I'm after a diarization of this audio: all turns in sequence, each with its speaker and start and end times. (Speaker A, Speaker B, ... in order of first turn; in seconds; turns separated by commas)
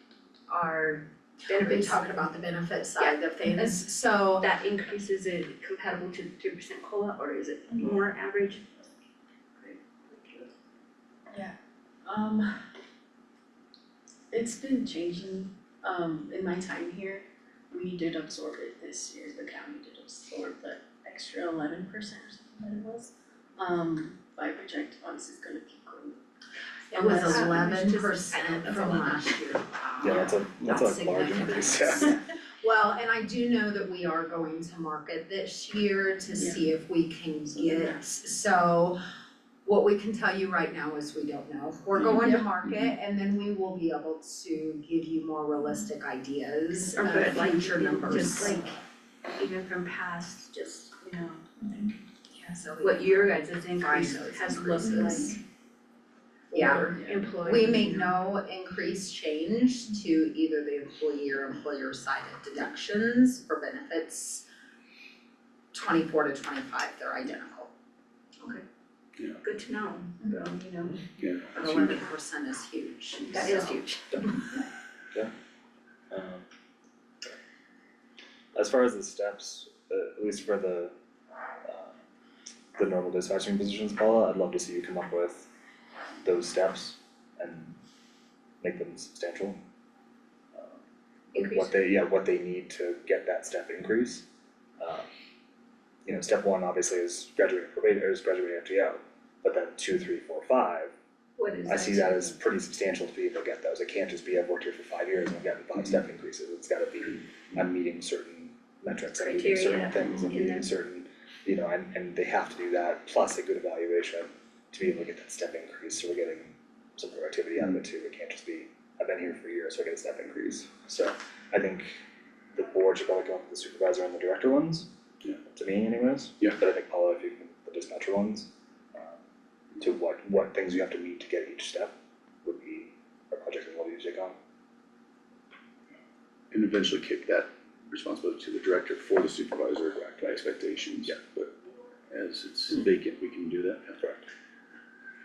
Speaker A: 0.5-2.2, Speaker B: 1.4-4.5, Speaker A: 3.0-3.8, Speaker A: 4.4-8.6, Speaker A: 9.6-10.5, Speaker C: 11.3-12.5, Speaker C: 14.3-26.2, Speaker B: 26.9-30.4, Speaker A: 26.9-32.1, Speaker C: 27.1-27.6, Speaker D: 30.0-32.1, Speaker B: 31.7-39.0, Speaker C: 36.4-36.6, Speaker B: 39.6-48.6, Speaker A: 46.9-48.8, Speaker A: 49.3-51.9, Speaker B: 52.3-55.4, Speaker A: 52.8-55.4, Speaker A: 56.5-58.1, Speaker B: 56.5-64.4, Speaker B: 65.7-67.7, Speaker A: 69.4-71.0, Speaker E: 71.2-72.0, Speaker B: 71.5-74.3, Speaker A: 73.2-74.4, Speaker D: 76.1-76.4, Speaker D: 78.5-80.9, Speaker D: 81.6-81.9, Speaker D: 82.8-85.5, Speaker D: 86.2-87.8, Speaker D: 88.6-89.6, Speaker D: 90.5-90.8, Speaker D: 91.3-94.2, Speaker A: 91.3-91.7, Speaker D: 94.8-95.0, Speaker D: 96.0-100.9, Speaker A: 101.4-102.4, Speaker D: 101.7-122.0, Speaker A: 109.1-110.7, Speaker D: 122.5-124.9, Speaker D: 125.5-129.2, Speaker D: 129.8-134.4, Speaker E: 136.5-141.5, Speaker E: 142.1-144.0, Speaker D: 144.0-144.3